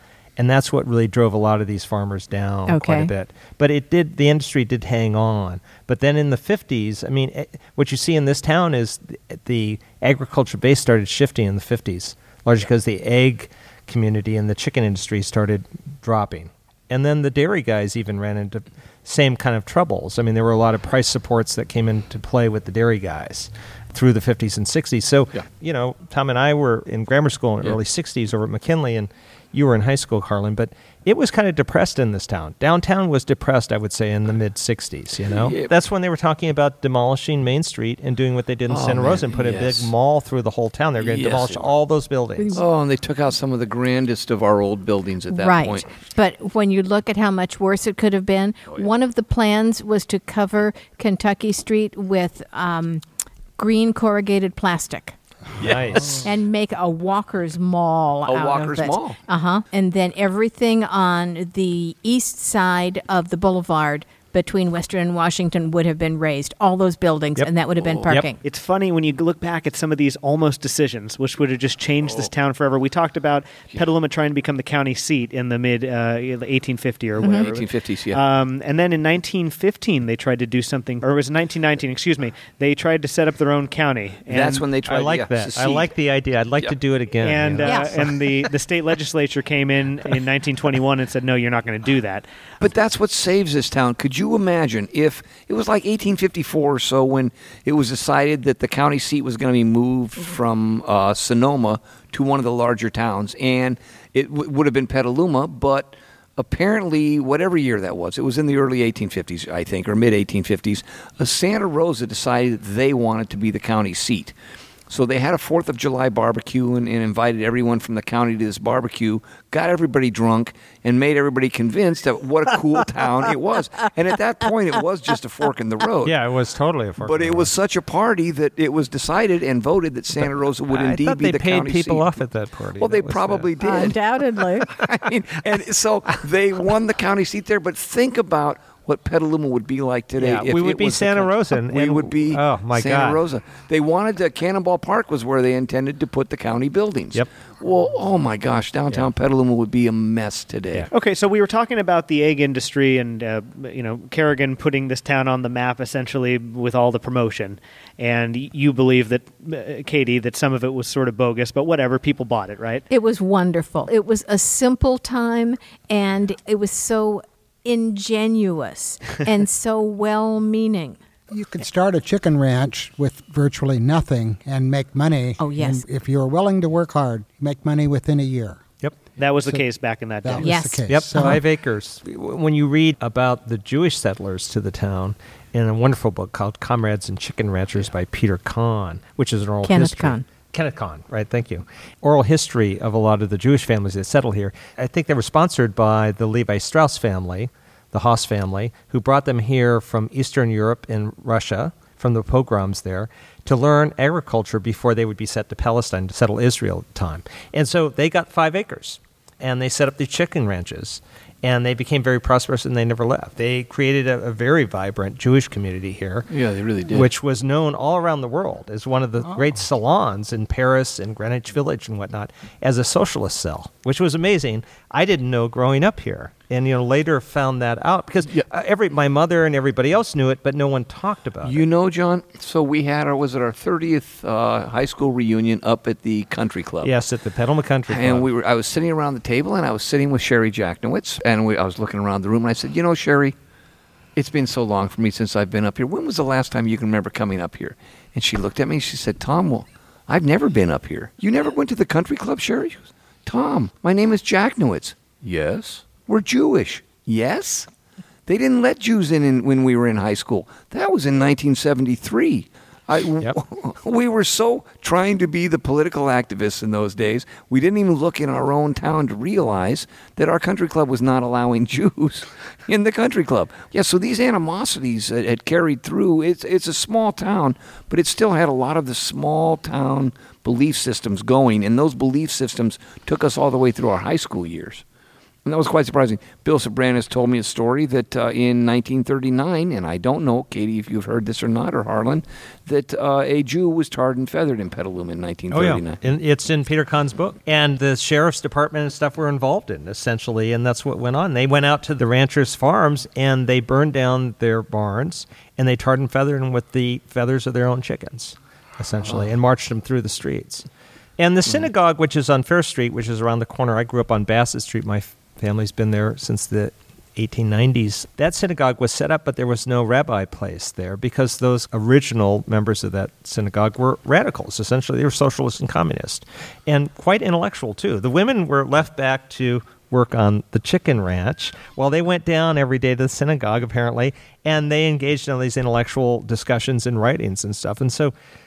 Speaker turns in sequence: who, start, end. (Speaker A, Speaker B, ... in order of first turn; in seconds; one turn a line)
Speaker A: 0.4-42.6
Speaker B: 2.7-3.1
Speaker C: 35.3-35.7
Speaker C: 38.7-39.9
Speaker C: 41.0-41.7
Speaker C: 42.5-45.9
Speaker B: 45.3-53.0
Speaker B: 53.6-55.2
Speaker C: 55.6-56.2
Speaker A: 55.6-56.2
Speaker B: 56.2-68.4
Speaker C: 58.3-59.2
Speaker C: 67.8-68.1
Speaker D: 68.4-84.7
Speaker C: 77.2-78.2
Speaker C: 84.3-85.9
Speaker A: 84.8-87.8
Speaker D: 87.2-92.2
Speaker B: 87.6-88.0
Speaker C: 92.6-114.3
Speaker C: 114.9-126.2
Speaker A: 126.0-127.5
Speaker C: 127.0-132.1
Speaker A: 130.2-133.8
Speaker C: 132.8-134.0
Speaker B: 133.6-134.7
Speaker C: 134.6-150.9
Speaker A: 140.2-143.2
Speaker D: 150.9-162.8
Speaker B: 162.9-171.0
Speaker E: 171.3-178.6
Speaker B: 175.4-175.8
Speaker D: 179.2-180.8
Speaker E: 180.2-181.4
Speaker B: 180.4-181.4
Speaker A: 180.9-216.3
Speaker B: 189.6-190.2
Speaker C: 216.3-217.1
Speaker A: 216.9-231.6
Speaker C: 231.4-236.9
Speaker A: 236.8-238.3
Speaker C: 237.9-243.3
Speaker C: 244.2-257.7
Speaker C: 258.3-284.8
Speaker C: 285.4-296.0
Speaker A: 295.5-310.6
Speaker A: 311.2-338.1